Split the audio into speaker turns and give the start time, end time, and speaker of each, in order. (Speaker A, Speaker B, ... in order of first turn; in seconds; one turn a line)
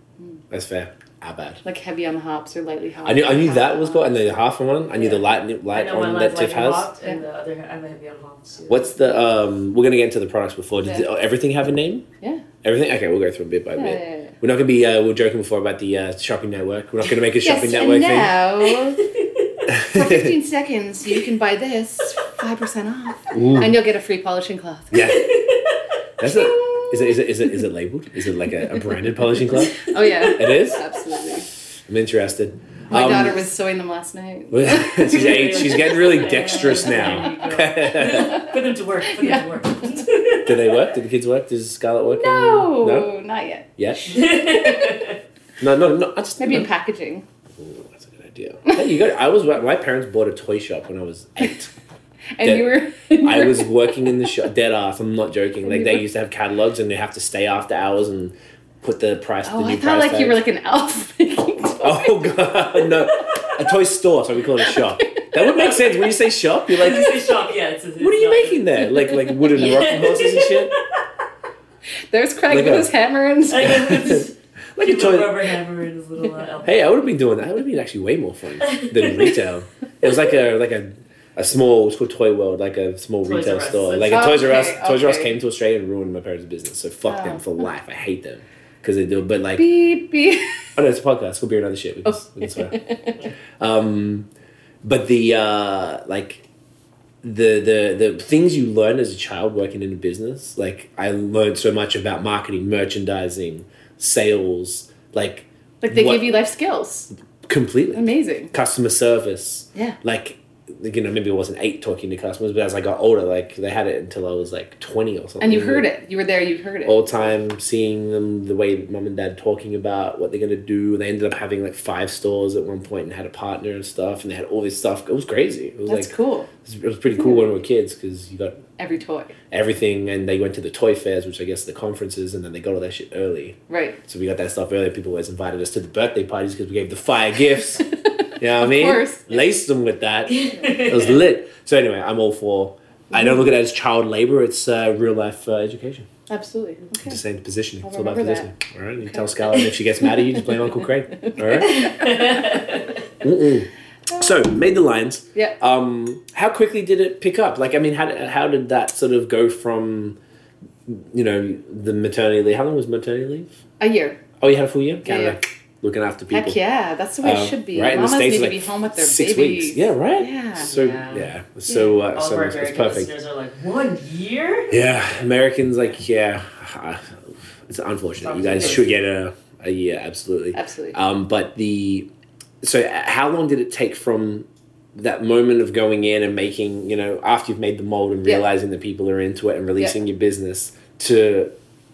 Speaker A: 0.5-1.6
Speaker B: 1.6-4.3
Speaker A: 3.0-6.9
Speaker B: 4.9-5.2
Speaker C: 5.7-9.0
Speaker A: 8.7-12.1
Speaker A: 12.6-18.4
Speaker B: 13.8-14.3
Speaker B: 17.4-19.1
Speaker A: 19.7-20.3
Speaker B: 19.9-25.1
Speaker A: 23.3-23.8
Speaker A: 24.9-25.4
Speaker C: 25.3-25.7
Speaker A: 26.2-30.8
Speaker B: 26.2-27.3
Speaker B: 29.8-31.5
Speaker A: 31.9-33.4
Speaker B: 32.9-36.0
Speaker A: 34.5-38.5
Speaker C: 35.1-40.8
Speaker B: 36.6-37.3
Speaker B: 38.1-38.5
Speaker B: 39.1-40.0
Speaker A: 40.4-43.1
Speaker B: 42.0-45.1
Speaker A: 43.8-44.3
Speaker C: 44.1-45.2
Speaker A: 45.6-46.7
Speaker B: 46.4-47.2
Speaker A: 47.6-51.7
Speaker B: 52.4-54.3
Speaker A: 52.4-60.4
Speaker B: 55.6-56.0
Speaker B: 59.5-62.9
Speaker A: 61.8-67.3
Speaker B: 64.6-65.1
Speaker C: 66.7-71.0
Speaker A: 68.0-70.8
Speaker B: 72.1-74.1
Speaker A: 72.5-72.9
Speaker C: 73.5-76.8
Speaker A: 73.6-75.4
Speaker A: 76.6-89.7
Speaker C: 78.7-79.4
Speaker C: 83.2-84.4
Speaker B: 84.1-85.3
Speaker B: 87.1-87.5
Speaker B: 89.6-90.6
Speaker A: 90.8-92.8
Speaker B: 92.1-93.2
Speaker A: 93.6-94.3
Speaker A: 94.8-96.4
Speaker A: 97.2-106.3
Speaker B: 105.8-107.1
Speaker A: 107.5-115.9
Speaker B: 108.0-108.5
Speaker B: 115.4-117.2
Speaker A: 116.8-126.1
Speaker B: 125.9-126.5
Speaker A: 126.6-128.6
Speaker B: 127.1-127.5
Speaker B: 128.8-129.3
Speaker A: 129.5-137.9
Speaker B: 133.7-134.0
Speaker B: 138.1-139.4
Speaker A: 138.4-146.1
Speaker C: 140.3-141.2
Speaker B: 143.1-143.5
Speaker B: 146.3-147.2
Speaker A: 147.0-152.1
Speaker B: 147.8-148.5
Speaker B: 149.0-150.6
Speaker B: 151.3-152.6
Speaker C: 151.7-152.9
Speaker A: 153.2-160.2
Speaker B: 154.1-154.4
Speaker A: 160.9-163.6
Speaker B: 163.8-164.2
Speaker A: 164.4-166.6
Speaker B: 165.1-165.4
Speaker B: 166.3-170.8
Speaker A: 167.2-173.1
Speaker C: 170.7-171.3
Speaker B: 171.7-172.0
Speaker C: 172.1-174.8
Speaker A: 174.7-182.1
Speaker C: 178.2-179.0
Speaker B: 180.6-181.0
Speaker A: 182.6-191.5